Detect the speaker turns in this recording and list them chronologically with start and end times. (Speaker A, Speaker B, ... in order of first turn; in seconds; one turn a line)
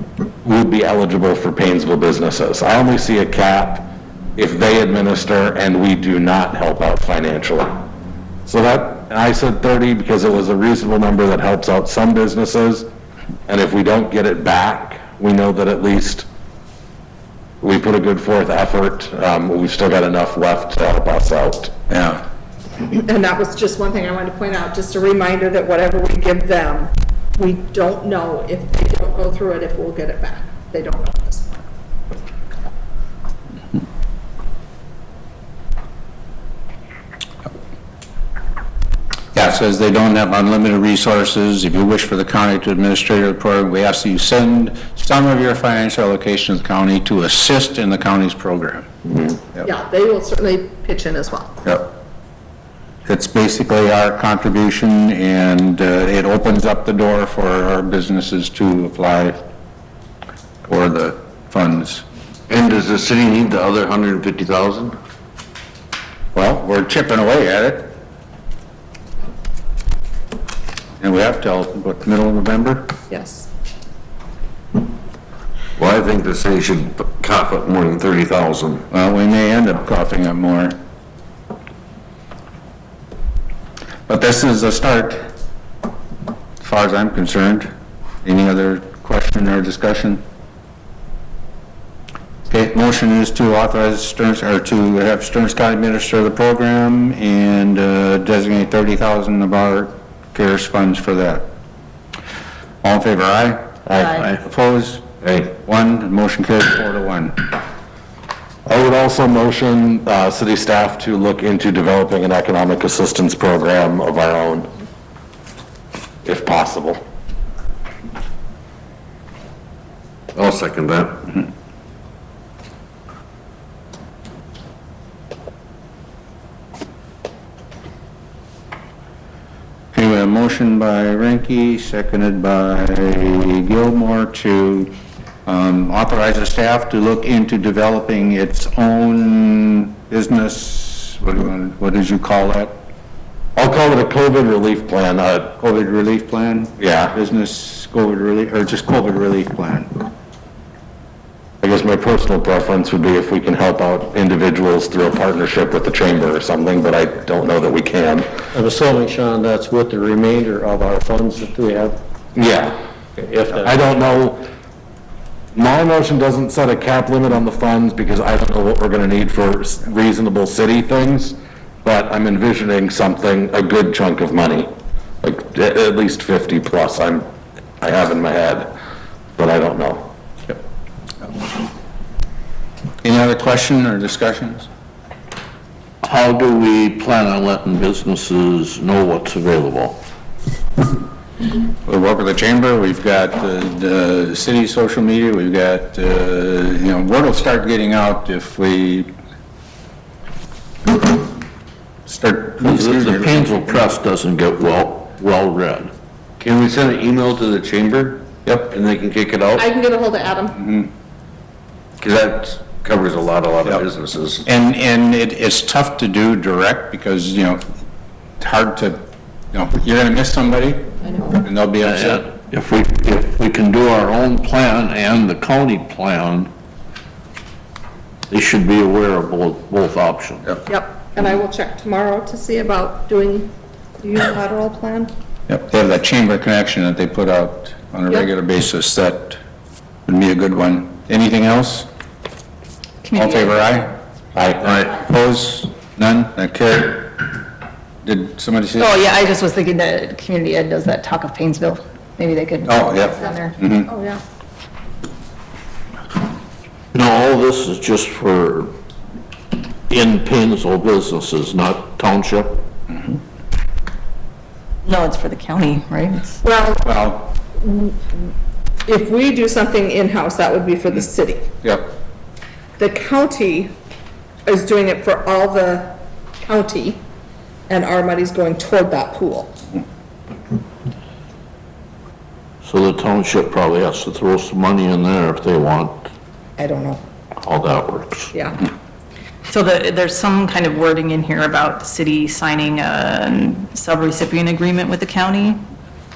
Speaker A: 0.4-7.8
Speaker A: 8.5-12.9
Speaker A: 13.5-16.3
Speaker A: 17.6-21.7
Speaker B: 21.9-22.2
Speaker C: 22.9-31.5
Speaker B: 39.3-48.9
Speaker C: 49.6-51.5
Speaker B: 53.1-59.4
Speaker B: 60.6-62.0
Speaker D: 62.5-65.0
Speaker B: 66.3-67.9
Speaker B: 71.0-72.9
Speaker C: 73.1-73.5
Speaker D: 75.8-78.8
Speaker B: 78.9-80.8
Speaker B: 84.1-85.2
Speaker B: 86.6-87.7
Speaker B: 88.2-90.2
Speaker B: 92.5-101.5
Speaker B: 102.8-105.0
Speaker E: 104.0-104.3
Speaker D: 104.0-104.4
Speaker B: 105.6-107.5
Speaker A: 108.7-114.7
Speaker A: 116.2-117.0
Speaker D: 120.3-121.2
Speaker B: 129.9-134.9
Speaker B: 135.5-142.8
Speaker A: 143.6-145.5
Speaker B: 145.6-149.9
Speaker A: 146.8-147.2
Speaker A: 151.6-158.3
Speaker F: 158.5-162.0
Speaker A: 162.3-162.8
Speaker F: 163.2-163.9
Speaker A: 163.4-164.4
Speaker A: 165.5-174.7
Speaker A: 175.2-177.3
Speaker A: 177.8-178.7
Speaker A: 179.4-180.1
Speaker B: 183.0-184.7
Speaker D: 186.0-190.0
Speaker B: 191.9-199.1
Speaker B: 202.1-203.5
Speaker D: 202.6-209.7
Speaker C: 209.6-210.7
Speaker D: 212.0-214.4
Speaker B: 214.4-217.6
Speaker B: 218.4-222.3
Speaker C: 221.0-221.4
Speaker D: 221.8-226.5
Speaker D: 228.3-230.5
Speaker C: 230.7-235.1
Speaker B: 235.5-239.4
Speaker B: 240.1-241.9
Speaker E: 243.0-243.6
Speaker B: 243.2-247.1
Speaker B: 248.0-249.0
Speaker E: 248.8-253.6
Speaker B: 252.7-253.9
Speaker C: 253.9-254.2
Speaker D: 256.9-258.7
Speaker D: 259.9-262.5
Speaker E: 264.9-266.4
Speaker C: 266.4-267.0
Speaker B: 266.8-267.3
Speaker C: 267.5-268.3
Speaker C: 268.9-271.5
Speaker B: 271.6-271.9
Speaker C: 272.8-273.8
Speaker C: 274.5-277.0
Speaker C: 277.7-279.6
Speaker D: 282.6-285.9
Speaker C: 286.6-287.0
Speaker D: 287.4-288.3
Speaker C: 288.3-288.6
Speaker E: 289.5-295.6